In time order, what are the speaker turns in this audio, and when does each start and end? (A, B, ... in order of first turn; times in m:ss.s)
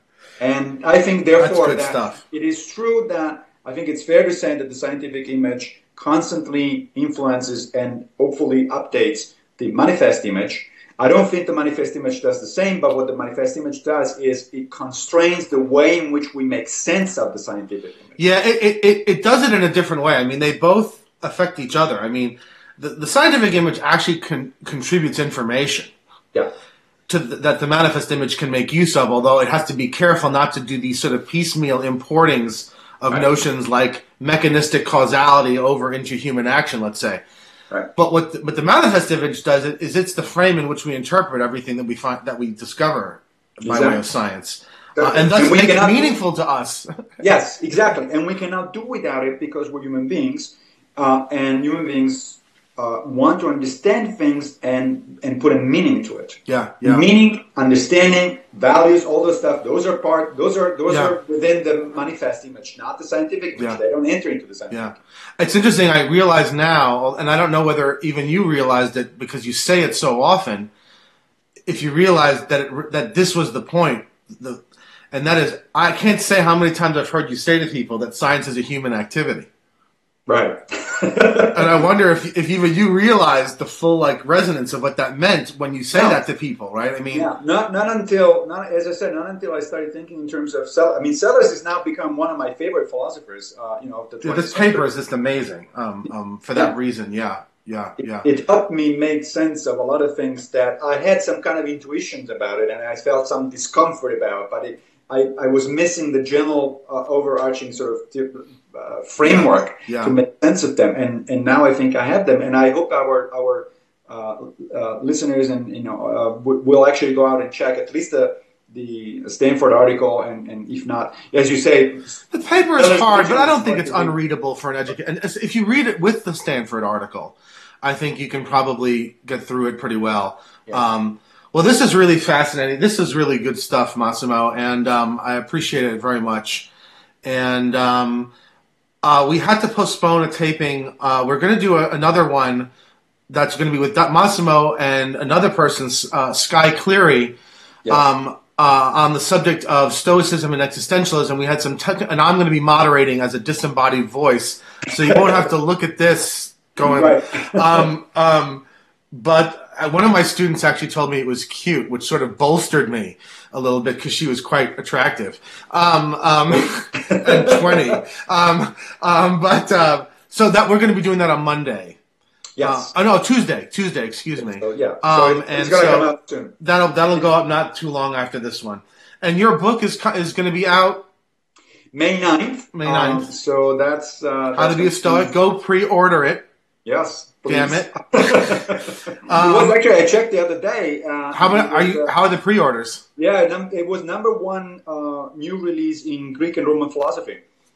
0:00.4-0:18.2 A
0:01.4-0:02.2 B
0:18.2-0:25.9 B
0:27.1-0:37.2 B
0:38.0-0:47.0 B
0:43.6-0:44.0 A
0:45.0-0:46.2 A
0:47.2-1:04.9 A
0:56.5-0:57.1 B
1:00.9-1:01.1 B
1:04.7-1:10.7 B
1:11.6-1:19.5 B
1:20.3-1:21.7 A
1:21.5-1:27.3 B
1:25.9-1:26.2 A
1:27.1-1:34.9 A
1:34.2-1:38.3 B
1:38.2-2:02.2 A
1:49.3-1:50.1 B
2:02.3-2:16.7 B
2:02.7-2:04.2 A
2:17.2-2:18.3 B
2:19.0-2:22.7 B
2:23.3-2:27.3 B
2:27.9-2:52.0 B
2:36.8-2:37.9 A
2:46.9-2:48.0 A
2:52.6-2:52.9 A
2:52.6-3:01.0 B
2:54.4-2:56.5 A
3:01.9-3:05.3 A
3:02.7-3:03.3 B
3:04.6-3:06.4 B
3:06.8-3:12.1 A
3:07.5-3:09.8 B
3:11.3-3:13.0 B
3:13.2-3:17.4 A